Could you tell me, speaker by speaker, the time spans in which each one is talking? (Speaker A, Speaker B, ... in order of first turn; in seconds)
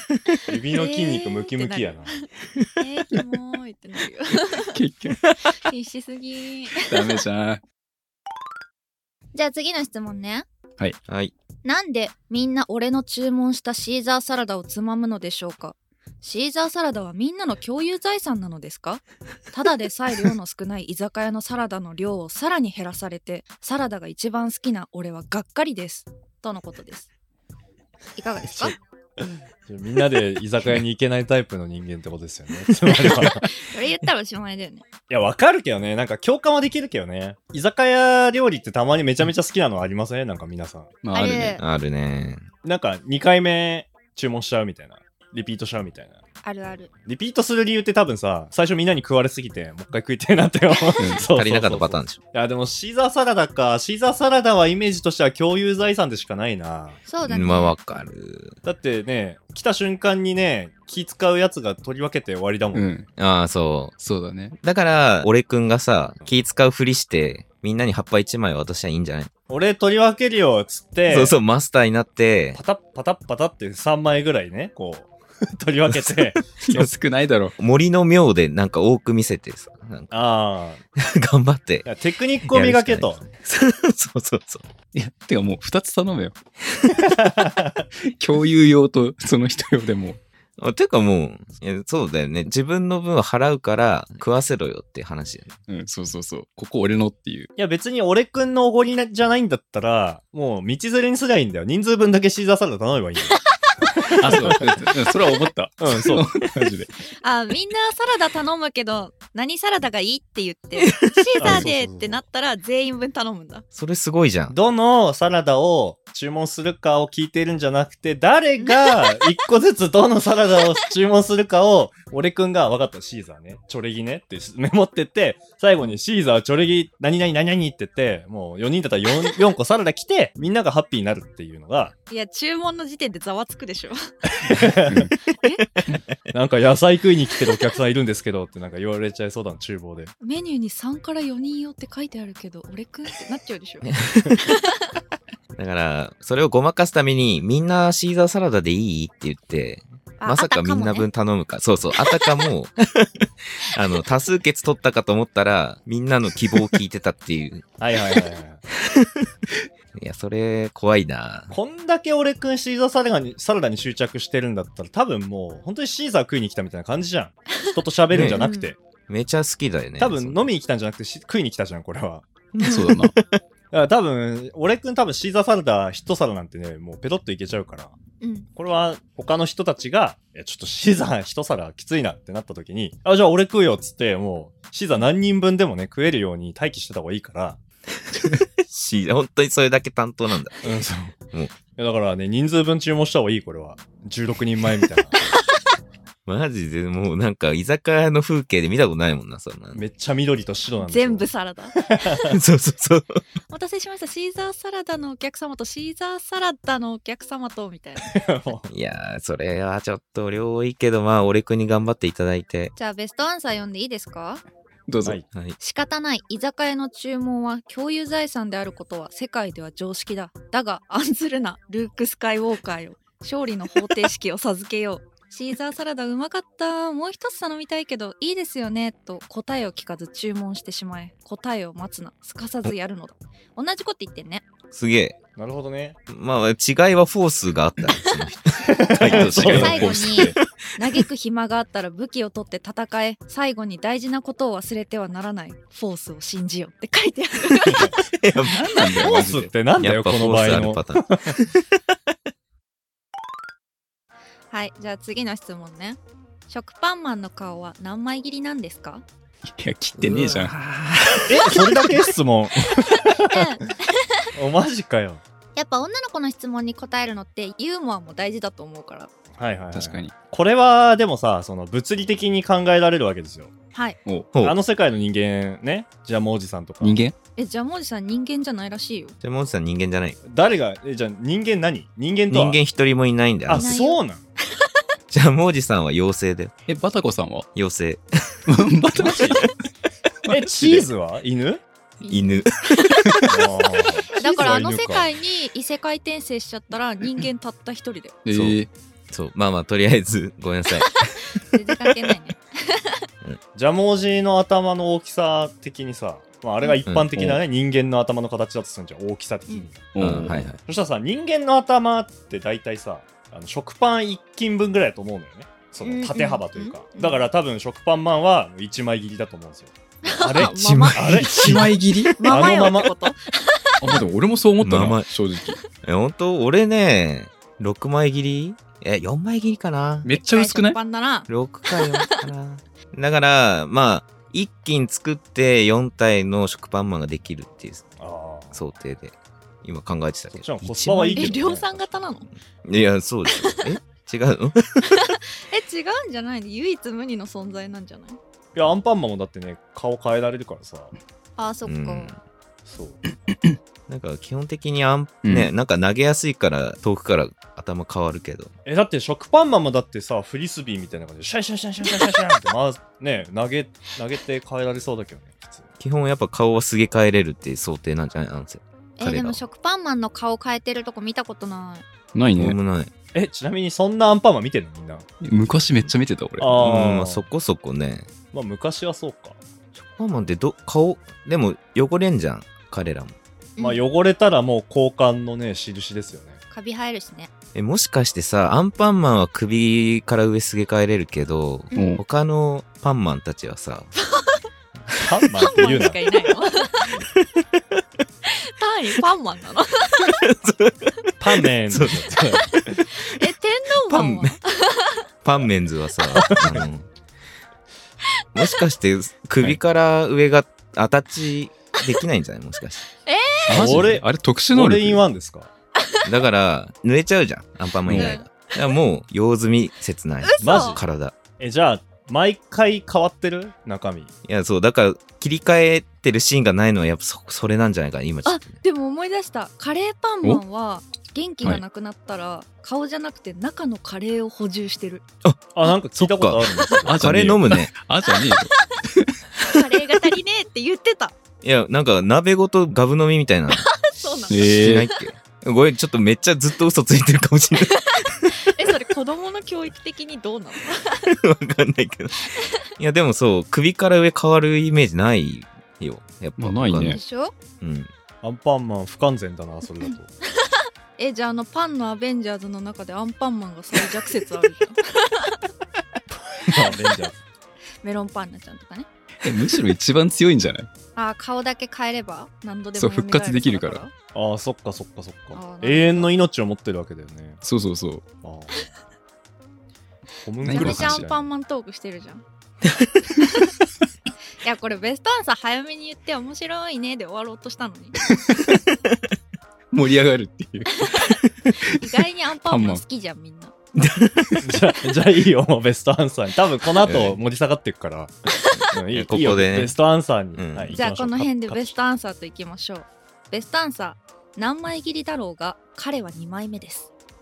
Speaker A: 0.5-2.1, 28.5-33.4, 35.1-40.9, 42.6-46.2, 47.1-57.0, 58.6-62.9, 69.5-71.3, 72.5-76.5, 80.1-80.8, 81.8-83.2, 97.6-103.4, 104.2-104.6, 105.8-106.2, 111.4-112.2, 114.5-131.9, 134.5-135.1, 136.3-140.1, 157.8-158.6, 161.5-168.8, 170.0-172.3, 173.7-178.0, 178.6-187.6, 190.6-191.2, 191.8-195.2, 199.7-202.2, 208.0-208.7, 235.4-236.0, 238.7-239.8, 249.0-251.3, 261.3-263.5, 264.3-265.2, 269.4-273.5, 274.4-277.0, 280.2-282.6, 283.4-284.2, 289.0-289.4, 290.3-291.6, 293.2-295.1, 303.5-309.9, 310.4-321.5, 322.2-322.9, 338.0-338.6, 340.3-342.1, 348.5-350.9, 352.6-353.0, 358.6-365.7, 373.1-375.1, 376.4-377.2, 378.3-379.4, 383.6-386.4, 395.0-396.2, 401.2-402.8, 406.1-406.7, 413.5-415.5, 420.4-420.8, 421.4-424.1, 435.5-437.1, 458.2-460.1, 466.4-467.2, 474.1-477.4, 478.2-478.5, 480.2-481.3, 494.4-498.1, 498.7-501.8
Speaker B: 0.7-2.3, 2.8-4.7, 5.5-7.2, 9.3-10.5, 11.6-27.1, 28.1-28.8, 32.9-34.8, 41.1-41.6, 46.4-46.9, 57.1-57.8, 107.2-113.7, 118.6-119.3, 132.1-134.7, 135.2-135.6, 140.2-144.9, 150.2-151.1, 168.3-168.7, 178.2-178.5, 200.8-201.9, 203.5-208.1, 212.8-214.4, 215.6-234.5, 239.0-248.0, 254.5-259.0, 263.2-264.2, 265.5-269.1, 277.4-279.2, 283.5-284.0, 292.0-293.4, 294.1-298.2, 300.8-303.0, 315.8-317.3, 320.0-321.2, 322.0-324.0, 330.2-332.3, 340.9-342.3, 343.3-343.6, 344.8-348.2, 351.4-352.1, 369.0-371.8, 383.6-383.8, 386.5-387.3, 391.7-392.0, 393.9-394.4, 395.0-397.0, 398.2-400.1, 402.9-405.0, 413.0-413.7, 415.8-416.0, 417.9-418.7, 420.2-420.8, 428.2-435.0, 436.5-436.8, 438.0-438.5, 439.4-441.1, 443.5-445.1, 447.6-451.1, 452.2-452.6, 456.8-457.3, 460.3-465.4, 467.8-468.9, 470.9-473.9, 475.3-476.1, 480.4-482.2, 483.2-483.5, 484.4-488.1, 490.8-493.5, 498.4-498.7, 500.7-506.9
Speaker C: 4.5-5.2, 6.9-7.6, 41.0-41.6, 51.0-51.3, 62.7-63.1, 64.0-64.5, 76.1-77.5, 84.9-86.4, 88.0-90.2, 95.7-97.5, 104.2-106.9, 134.9-135.2, 172.6-173.2, 214.9-215.2, 239.2-240.4, 248.4-249.5, 259.4-261.7, 269.7-270.1, 276.8-277.1, 286.7-287.5, 288.5-289.5, 290.2-290.9, 298.2-298.7, 307.1-307.4, 309.9-310.5, 321.1-322.3, 323.8-325.6, 330.0-330.8, 355.2-355.5, 372.1-372.6, 375.2-376.6, 391.7-392.0, 413.5-415.0, 417.8-418.2, 436.9-439.2, 444.3-444.9, 456.4-457.0, 469.2-470.7, 472.8-473.8, 477.4-478.0, 480.4-481.0, 488.3-488.6, 489.7-492.8
Speaker D: 11.1-11.3, 41.6-42.5, 51.3-52.2, 57.2-58.6, 63.2-64.0, 64.6-69.3, 71.1-72.6, 77.6-80.2, 81.0-81.9, 82.5-84.6, 86.9-87.5, 90.6-95.5, 110.8-111.7, 113.7-114.6, 143.8-144.4, 145.6-157.6, 159.9-161.5, 168.1-168.5, 169.1-170.5, 172.6-173.4, 188.1-190.8, 196.2-199.8, 202.3-203.2, 208.7-212.7, 234.7-235.2, 236.1-240.4, 248.0-248.6, 249.8-251.6, 260.0-260.5, 279.2-280.2, 282.3-283.7, 285.1-286.5, 287.5-288.0, 292.0-292.5, 298.3-301.4, 310.0-310.6, 320.3-321.7, 324.6-325.1, 325.8-330.1, 331.3-337.9, 338.5-341.4, 342.6-344.9, 351.6-352.2, 353.9-358.5, 365.8-369.4, 372.3-372.9, 376.6-378.1, 379.8-383.1, 387.5-393.9, 397.2-397.6, 400.1-401.1, 401.7-402.6, 403.9-404.4, 405.2-406.9, 408.3-412.9, 416.0-421.1, 424.2-428.6, 435.2-437.7, 441.4-443.7, 444.4-448.4, 451.2-457.0, 457.6-457.9, 482.6-483.1, 493.8-494.5, 496.8-497.2, 498.9-499.8, 500.3-500.8